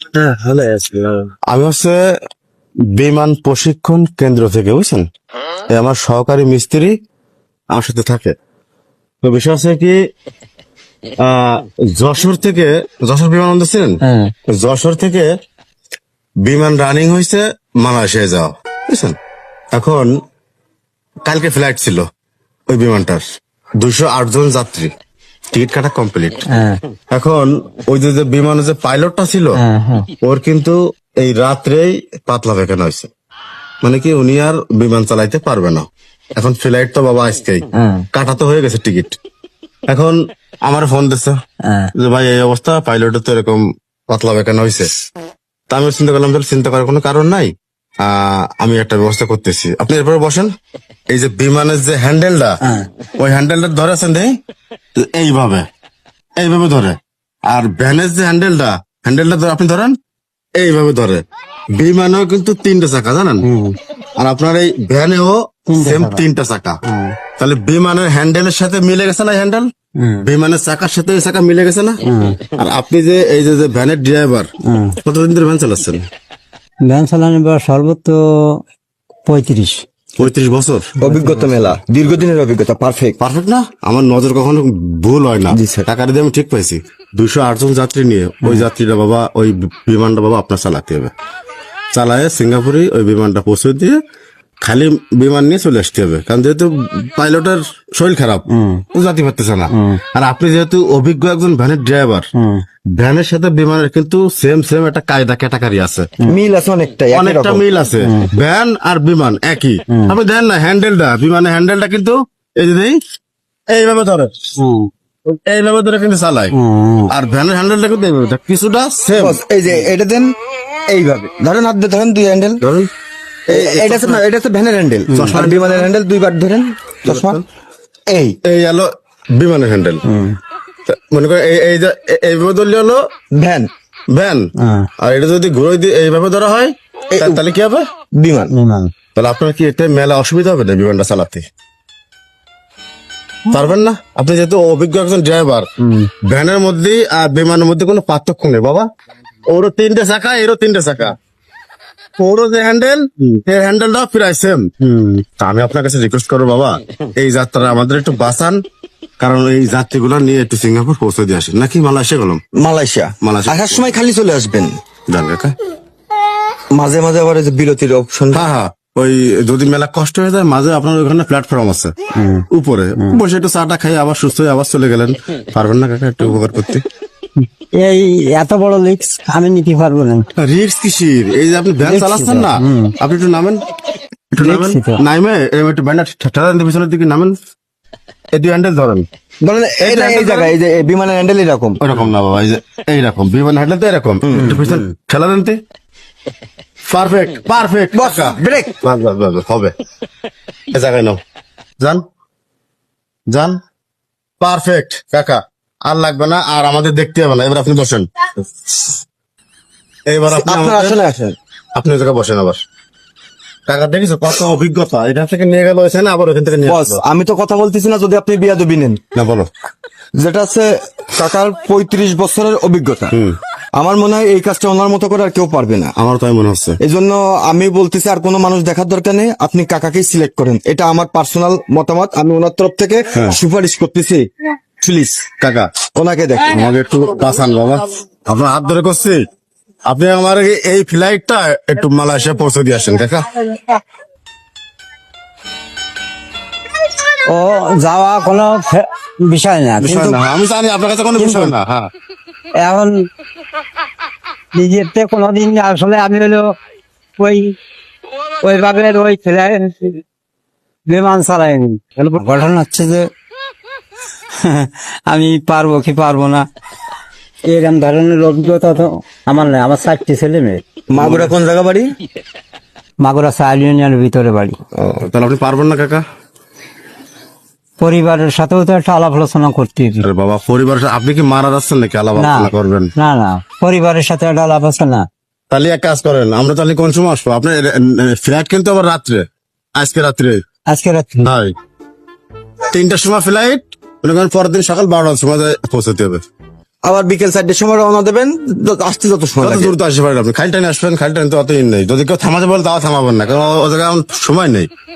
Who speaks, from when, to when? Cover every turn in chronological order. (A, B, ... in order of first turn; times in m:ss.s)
0:00.2-0:01.2 A
0:01.5-0:02.0 B
0:02.9-0:05.0 B
0:05.7-0:06.9 B
0:07.7-0:08.3 B
0:09.2-0:09.9 B
0:11.2-0:15.2 B
0:14.0-0:14.3 C
0:16.4-0:19.2 B
0:19.7-0:20.1 B
0:21.2-0:22.0 B
0:22.7-0:23.2 B
0:23.8-0:24.9 B
0:25.5-0:26.4 B
0:26.5-0:26.8 C
0:27.1-0:29.6 B
0:29.6-0:30.1 C
0:30.2-0:33.1 B
0:33.8-0:39.2 B
0:37.8-0:38.0 C
0:39.9-0:41.4 B
0:41.6-0:41.9 C
0:42.0-0:44.9 B
0:45.7-0:50.5 B
0:51.1-0:52.5 B
0:53.2-0:54.3 B
0:55.0-0:55.6 B
0:56.4-0:57.0 B
0:57.5-0:59.9 B
1:00.6-1:01.2 B
1:01.8-1:03.4 B
1:03.4-1:03.8 C
1:04.2-1:06.8 B
1:05.7-1:06.2 C
1:06.8-1:07.2 C
1:07.4-1:09.7 B
1:10.0-1:10.2 C
1:10.2-1:14.5 B
1:12.0-1:12.4 C
1:14.6-1:15.0 C
1:15.0-1:16.1 B
1:16.8-1:18.6 C
1:19.3-1:19.8 C
1:20.2-1:20.9 B
1:21.0-1:21.5 C
1:21.0-1:23.2 A
1:23.2-1:31.1 B
1:25.5-1:25.9 A
1:28.4-1:28.7 C
1:31.9-1:34.0 B
1:34.6-1:42.3 B
1:38.5-1:38.8 C
1:39.7-1:40.0 C
1:42.3-1:42.6 C
1:42.9-1:46.1 B
1:46.3-1:47.6 A
1:47.1-1:53.0 B
1:48.0-1:48.3 C
1:49.9-1:50.1 C
1:53.7-1:54.3 B
1:54.6-1:54.9 C
1:55.3-1:56.5 B
1:56.5-1:57.1 C
1:57.1-1:59.4 B
1:59.2-2:00.3 A
2:00.9-2:02.6 A
2:02.6-2:02.9 B
2:03.5-2:04.2 B
2:03.5-2:07.4 A
2:05.1-2:05.9 B
2:07.0-2:07.4 B
2:08.1-2:08.4 A
2:08.4-2:10.0 B
2:10.0-2:10.4 C
2:10.9-2:13.0 B
2:13.3-2:13.7 A
2:14.1-2:14.5 B
2:14.6-2:14.9 C
2:15.0-2:17.9 B
2:17.1-2:17.4 A
2:18.2-2:18.5 A
2:18.5-2:18.9 C
2:19.1-2:21.4 B
2:23.5-2:25.7 B
2:25.8-2:26.1 C
2:26.2-2:28.8 B
2:29.5-2:31.2 B
2:32.2-2:34.7 B
2:34.8-2:35.2 C
2:35.4-2:38.6 B
2:39.2-2:42.4 B
2:42.5-2:44.8 A
2:43.2-2:44.0 B
2:45.1-2:45.5 B
2:46.7-2:48.4 A
2:48.3-2:51.9 B
2:52.1-2:52.4 C
2:52.5-2:56.8 B
2:57.8-3:00.3 C
3:00.4-3:03.6 B
3:01.8-3:02.9 C
3:04.3-3:07.4 B
3:04.4-3:05.0 C
3:08.3-3:09.1 B
3:09.4-3:11.8 A
3:09.8-3:10.5 B
3:11.8-3:15.6 B
3:14.2-3:14.6 A
3:16.9-3:19.7 B
3:17.9-3:18.8 A
3:20.7-3:21.2 B
3:23.3-3:23.5 B
3:24.4-3:28.1 B
3:30.1-3:31.0 B
3:30.3-3:31.4 A
3:31.7-3:32.6 B
3:33.7-3:37.0 B
3:36.6-3:39.0 A
3:39.1-3:39.5 B
3:40.2-3:43.2 A
3:43.1-3:43.4 B
3:43.8-3:45.9 A
3:46.0-3:46.8 B
3:46.8-3:54.2 A
3:54.8-3:55.3 A
3:55.4-3:55.7 B
3:55.9-3:56.7 A
3:56.5-3:59.2 B
3:59.9-4:03.4 B
4:07.3-4:10.2 C
4:09.8-4:11.9 B
4:11.2-4:11.5 C
4:12.6-4:13.0 C
4:14.5-4:16.5 C
4:17.2-4:17.5 C
4:18.4-4:20.0 C
4:20.9-4:23.0 C
4:24.3-4:26.4 C
4:27.5-4:30.6 C
4:30.9-4:31.9 A
4:31.0-4:31.3 B
4:33.0-4:34.6 C
4:34.8-4:36.0 B
4:37.8-4:40.0 C
4:40.0-4:42.9 B
4:42.2-4:45.0 C
4:45.5-4:49.2 B
4:49.8-4:50.4 B
4:50.7-4:51.2 C
4:51.2-4:51.5 B
4:52.7-4:56.2 B
4:56.8-4:59.8 A
4:59.4-5:04.7 B